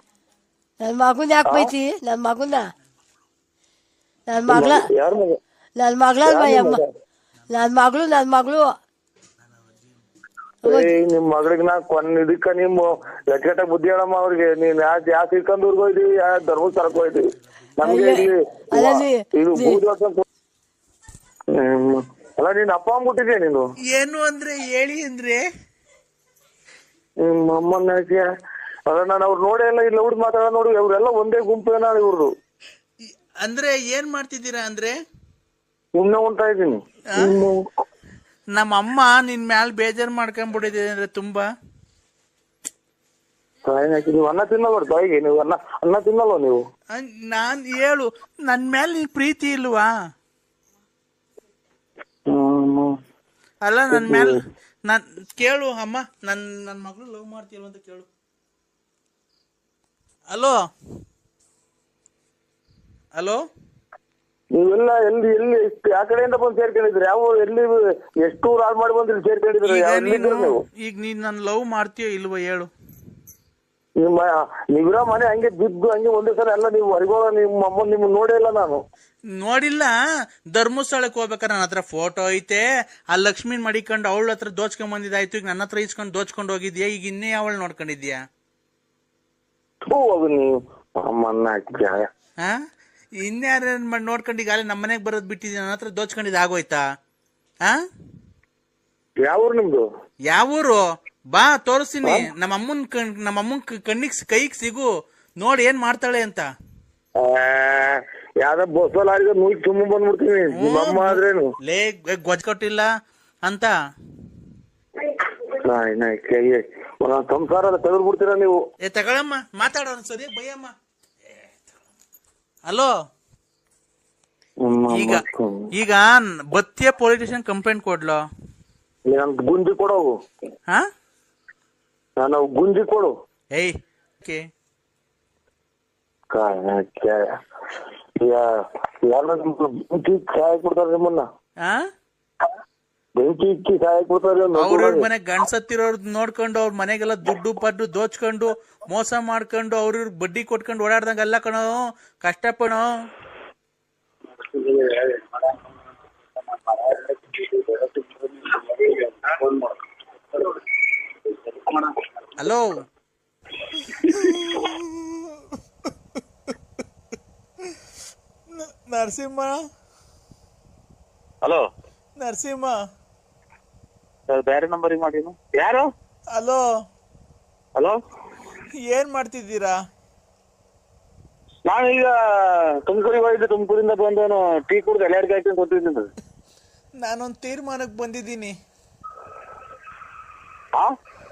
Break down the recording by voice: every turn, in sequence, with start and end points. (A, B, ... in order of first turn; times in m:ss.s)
0:00.8-0:02.7 A
0:01.4-0:01.7 B
0:04.3-0:04.9 A
0:04.5-0:05.4 B
0:05.8-0:06.8 A
0:06.2-0:06.8 B
0:07.5-0:08.8 A
0:10.6-0:10.9 A
0:10.7-0:17.2 B
0:17.8-0:20.2 B
0:17.8-0:19.8 A
0:21.5-0:23.6 B
0:23.9-0:25.4 C
0:27.2-0:28.3 B
0:28.9-0:32.3 B
0:33.4-0:34.9 C
0:36.0-0:37.6 B
0:38.6-0:41.5 C
0:43.6-0:46.6 B
0:46.9-0:49.9 C
0:52.3-0:52.9 B
0:53.6-0:58.1 C
0:53.9-0:54.4 B
1:03.1-1:03.4 C
1:04.5-1:10.6 B
1:09.6-1:12.7 C
1:14.0-1:18.8 B
1:19.4-1:19.9 C
1:20.6-1:22.6 C
1:23.1-1:28.2 C
1:29.9-1:32.0 B
1:33.2-1:36.8 C
1:39.2-1:39.8 B
1:40.3-1:40.8 C
1:41.3-1:44.9 C
1:45.4-1:46.4 C
1:47.2-1:51.5 B
1:50.5-1:52.9 C
1:53.4-1:53.7 C
1:55.5-1:58.5 B
1:58.8-2:00.7 C
2:04.6-2:05.6 B
2:04.9-2:05.2 C
2:05.8-2:08.2 C
2:09.1-2:10.1 B
2:12.2-2:13.1 B
2:13.5-2:14.4 C
2:16.3-2:17.2 B
2:18.2-2:18.5 B
2:19.0-2:21.2 B
2:23.2-2:25.1 B
2:24.6-2:32.9 C
2:42.4-2:42.6 C
2:44.1-2:45.2 C
2:48.6-2:49.6 C
2:52.2-2:52.7 C
2:54.3-2:55.9 D
2:56.3-2:56.6 C
2:58.9-2:59.8 C
3:01.6-3:06.1 D
3:07.0-3:08.5 C